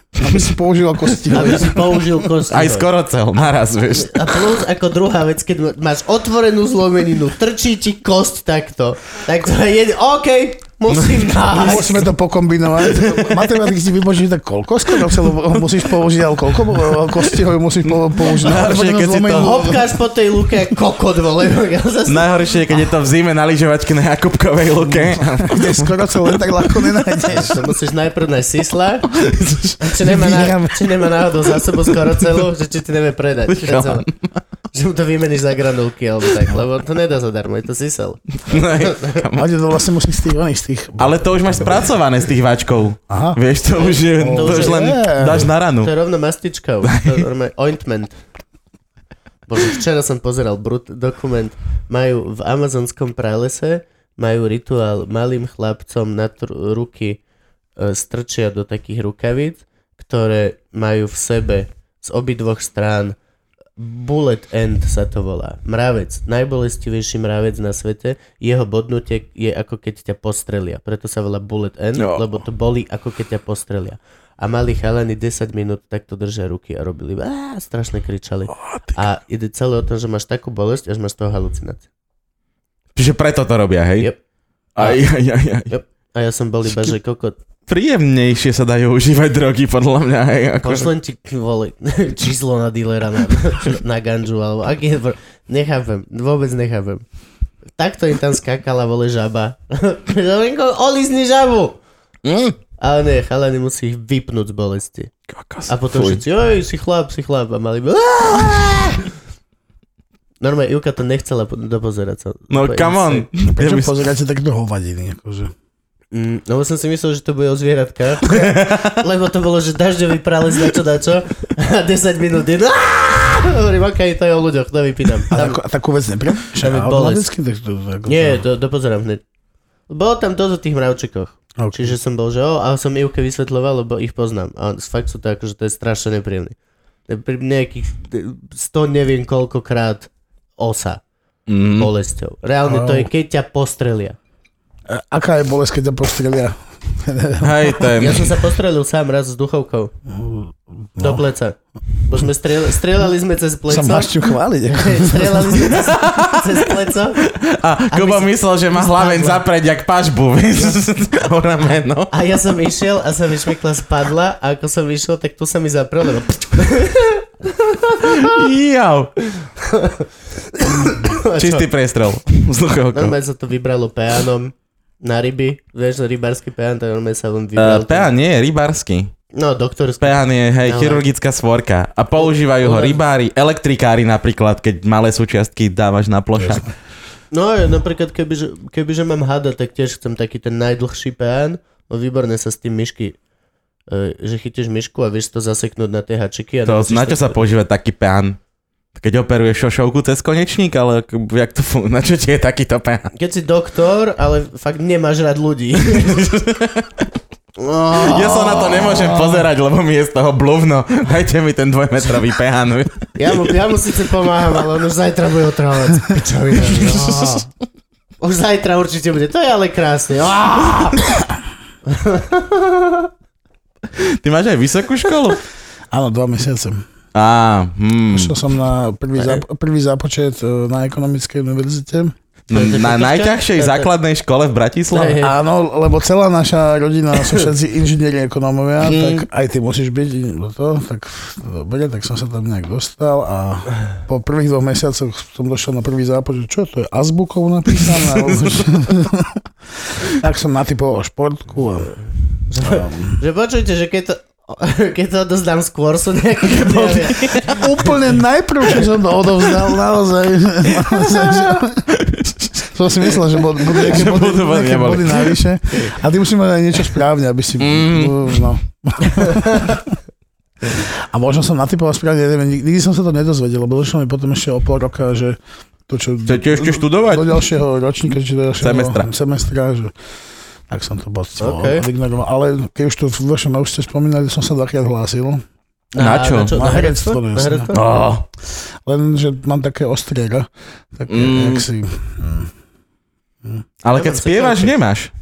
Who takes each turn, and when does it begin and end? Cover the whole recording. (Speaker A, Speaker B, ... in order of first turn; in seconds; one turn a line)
Speaker A: 0.2-2.2
Speaker B: 1.3-2.9
Speaker C: 2.5-4.5
Speaker B: 3.9-12.0
Speaker C: 10.9-11.2
Speaker A: 11.5-19.8
Speaker C: 12.8-13.5
Speaker C: 18.2-19.7
Speaker B: 19.3-22.9
Speaker C: 22.1-26.9
Speaker A: 24.9-27.6
Speaker B: 27.3-29.1
Speaker C: 29.1-29.8
Speaker B: 29.8-34.1
Speaker A: 30.0-30.9
Speaker C: 33.5-34.1
Speaker B: 34.7-39.3
Speaker C: 38.4-39.5
Speaker A: 39.3-41.9
Speaker C: 41.0-45.9
Speaker A: 43.1-43.4
Speaker B: 43.7-48.2
Speaker A: 44.1-45.5
Speaker C: 46.9-47.2
Speaker B: 49.5-57.2
Speaker B: 57.8-63.1
Speaker B: 63.8-81.8
Speaker C: 72.0-72.2
Speaker C: 78.7-79.0
Speaker C: 82.9-84.1
Speaker C: 84.8-85.7
Speaker B: 84.8-85.0
Speaker B: 85.7-87.3
Speaker C: 87.7-90.9
Speaker B: 90.6-97.0
Speaker B: 97.8-101.8
Speaker C: 102.2-102.6
Speaker B: 102.8-105.1
Speaker C: 105.3-106.2
Speaker B: 105.7-109.1
Speaker B: 110.4-113.3
Speaker C: 112.5-113.9
Speaker A: 113.4-115.5
Speaker B: 116.1-125.6
Speaker C: 118.3-119.0
Speaker A: 125.3-128.4
Speaker B: 126.6-127.2
Speaker B: 128.1-129.2
Speaker B: 129.9-136.5
Speaker A: 131.6-131.9
Speaker B: 137.1-141.0
Speaker C: 141.5-141.9
Speaker B: 141.8-144.2
Speaker A: 142.6-143.1
Speaker A: 144.9-148.2
Speaker C: 147.4-148.3
Speaker B: 147.9-149.9
Speaker A: 150.1-151.2
Speaker B: 151.0-154.1
Speaker A: 153.7-155.7
Speaker B: 154.7-157.2
Speaker C: 155.7-156.6
Speaker C: 157.2-162.1
Speaker B: 157.9-159.4
Speaker B: 162.1-168.5
Speaker C: 168.0-169.1
Speaker B: 169.6-171.7
Speaker C: 171.3-173.2
Speaker B: 172.9-178.1
Speaker C: 177.6-179.1
Speaker B: 179.3-181.0
Speaker C: 180.0-186.7
Speaker B: 182.2-183.0
Speaker A: 186.4-186.7
Speaker B: 187.3-193.2
Speaker B: 193.9-197.4
Speaker C: 196.7-198.4
Speaker C: 198.9-203.1
Speaker B: 203.1-206.2
Speaker C: 205.9-207.1
Speaker B: 207.6-209.3
Speaker C: 207.9-213.5
Speaker B: 213.2-217.5
Speaker C: 216.6-217.4
Speaker B: 218.2-221.1
Speaker B: 221.8-223.1
Speaker C: 223.9-225.4
Speaker A: 225.9-226.8
Speaker C: 227.1-228.3
Speaker A: 228.1-232.1
Speaker C: 232.5-235.2
Speaker B: 232.5-233.9
Speaker B: 234.9-235.3
Speaker A: 235.2-251.9
Speaker C: 238.8-239.2
Speaker C: 247.7-248.7
Speaker B: 252.5-257.9
Speaker A: 252.6-253.2
Speaker C: 256.4-257.6
Speaker A: 257.5-261.9
Speaker C: 260.9-262.5
Speaker A: 262.6-269.9
Speaker C: 263.2-265.4
Speaker C: 267.6-268.5
Speaker B: 269.3-269.6
Speaker A: 270.7-279.9
Speaker C: 276.3-277.5
Speaker C: 278.6-279.1
Speaker A: 280.7-285.4
Speaker B: 281.4-281.9
Speaker B: 285.9-287.9
Speaker C: 286.0-286.6
Speaker A: 286.5-287.7
Speaker C: 287.7-288.2
Speaker A: 288.8-292.5
Speaker C: 291.1-291.6
Speaker C: 293.8-295.1
Speaker B: 293.9-294.7